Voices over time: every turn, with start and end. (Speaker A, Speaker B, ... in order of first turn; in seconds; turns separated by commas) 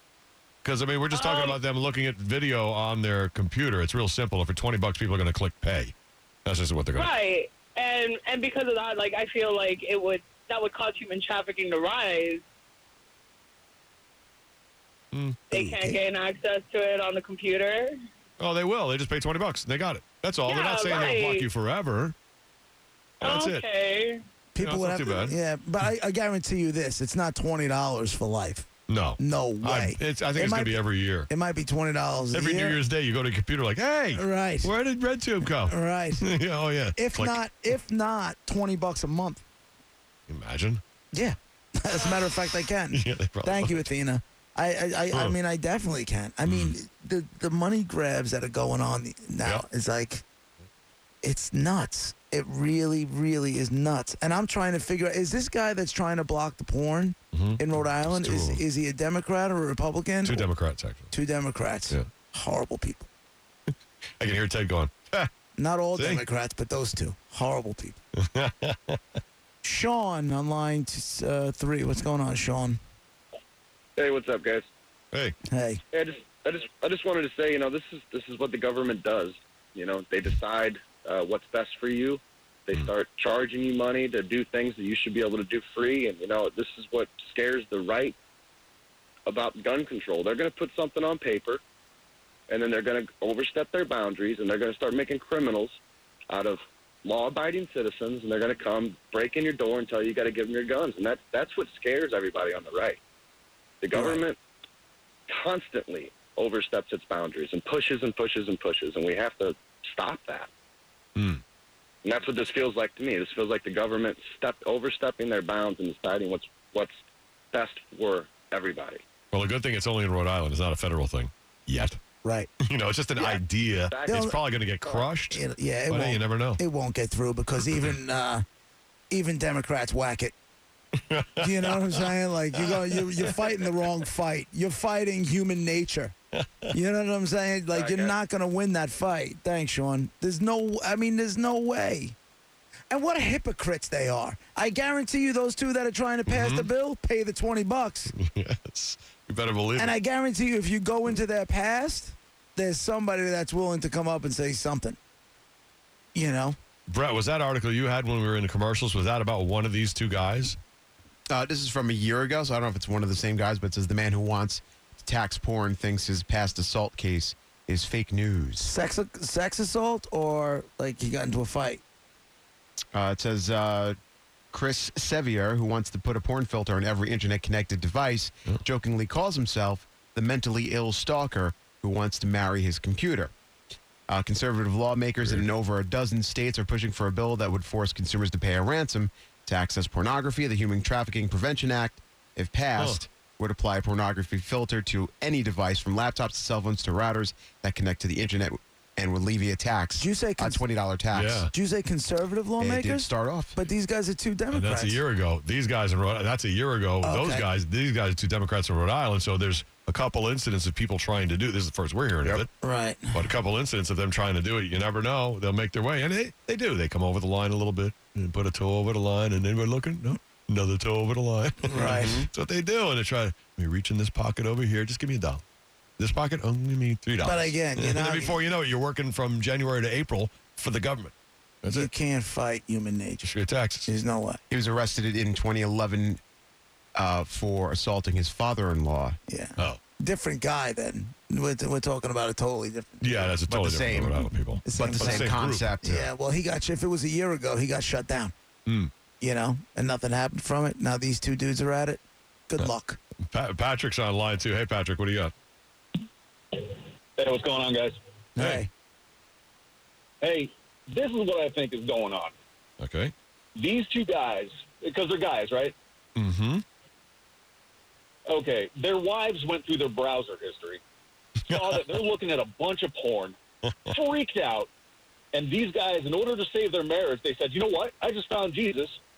Speaker A: 0.6-5.9, Speaker B: 1.1-1.6, Speaker A: 6.5-7.1, Speaker B: 6.9-12.4, Speaker A: 15.1-15.4, Speaker B: 15.5-17.9, Speaker C: 15.5-16.0, Speaker A: 18.4-22.1, Speaker B: 20.5-21.5, Speaker A: 23.2-23.6, Speaker B: 23.2-24.2, Speaker C: 24.5-28.7, Speaker A: 24.6-25.4, Speaker A: 28.9-31.3, Speaker C: 29.2-32.8, Speaker A: 32.3-37.4, Speaker C: 34.1-34.7, Speaker C: 35.6-36.3, Speaker C: 37.0-39.4, Speaker A: 40.3-40.8, Speaker C: 41.1-50.2, Speaker A: 42.9-43.8, Speaker A: 46.5-46.7, Speaker C: 51.2-60.5, Speaker A: 57.3-58.6, Speaker A: 60.2-61.1, Speaker C: 61.1-63.1, Speaker A: 64.2-65.3, Speaker C: 65.6-68.0, Speaker A: 66.0-66.2, Speaker A: 68.2-69.0, Speaker C: 69.6-72.8, Speaker D: 74.0-74.7, Speaker C: 75.5-75.8, Speaker D: 75.9-88.2, Speaker D: 89.2-91.6, Speaker D: 92.5-95.8, Speaker D: 96.3-103.0, Speaker D: 103.8-104.4, Speaker D: 105.3-110.5, Speaker A: 111.2-111.4, Speaker D: 112.0-117.0, Speaker D: 117.5-119.0, Speaker A: 119.3-122.0, Speaker C: 122.2-122.5, Speaker A: 122.6-126.6, Speaker D: 123.9-124.2, Speaker C: 124.1-124.4, Speaker C: 125.3-128.4, Speaker C: 129.1-130.3, Speaker A: 131.1-132.0, Speaker C: 131.4-136.2, Speaker A: 132.6-133.4, Speaker A: 136.4-136.7, Speaker C: 136.7-142.2, Speaker D: 137.7-138.1, Speaker C: 142.9-148.1, Speaker A: 146.3-146.7, Speaker A: 148.1-149.9, Speaker C: 149.8-155.0, Speaker C: 156.2-156.6, Speaker A: 156.9-160.6, Speaker E: 161.3-168.7, Speaker C: 168.6-171.8, Speaker E: 172.9-174.0, Speaker E: 174.5-183.3, Speaker E: 184.1-201.5, Speaker A: 185.2-185.4, Speaker C: 200.0-200.6, Speaker A: 201.1-201.5, Speaker C: 201.5-205.0, Speaker E: 202.6-203.6, Speaker A: 204.5-212.5, Speaker C: 207.0-207.5, Speaker C: 212.6-213.3, Speaker A: 213.1-225.4, Speaker C: 221.7-222.3, Speaker E: 221.7-222.3, Speaker A: 226.0-231.9, Speaker C: 227.2-228.4, Speaker C: 231.7-233.3, Speaker A: 233.2-233.9, Speaker C: 233.9-234.4, Speaker E: 234.5-236.2, Speaker E: 237.0-239.2, Speaker C: 239.3-243.3, Speaker A: 243.0-245.9, Speaker E: 243.5-246.1, Speaker C: 244.7-248.3, Speaker A: 248.7-248.9, Speaker C: 249.2-253.0, Speaker A: 253.3-255.3, Speaker F: 256.5-258.0, Speaker C: 258.4-258.7, Speaker F: 260.2-262.4, Speaker A: 262.8-263.1, Speaker F: 263.5-265.8, Speaker A: 266.2-266.6, Speaker F: 268.2-270.8, Speaker F: 271.5-273.4, Speaker A: 271.5-272.0, Speaker F: 273.9-274.7, Speaker F: 275.3-279.0